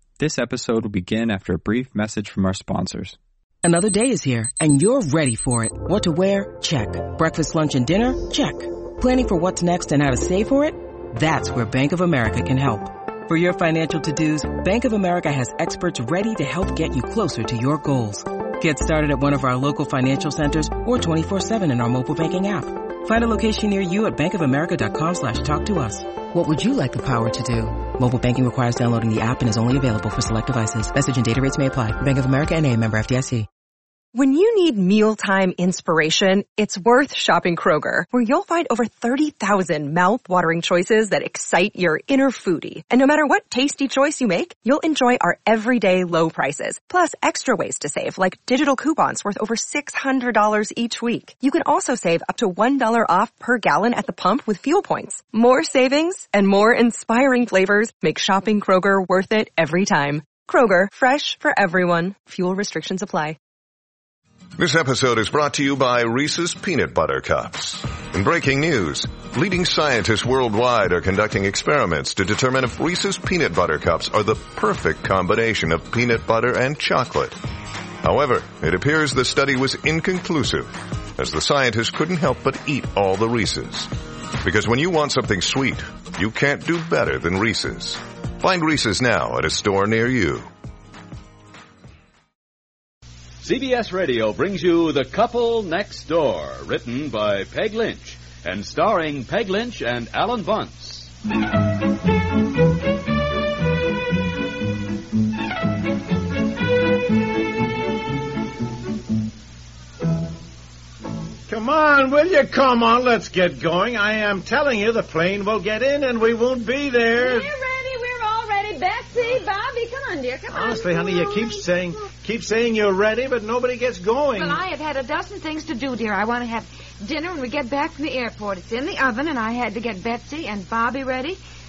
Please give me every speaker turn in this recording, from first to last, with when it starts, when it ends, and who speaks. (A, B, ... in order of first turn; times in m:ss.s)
0:00.2-0:03.1 A
0:03.6-0:33.5 B
0:34.1-1:03.4 C
1:04.6-1:17.3 D
1:18.0-1:23.8 D
1:24.4-1:30.5 D
1:33.4-1:41.1 E
1:51.5-1:57.5 F
1:57.1-2:00.7 G
2:00.5-2:04.6 F
2:04.4-2:11.4 G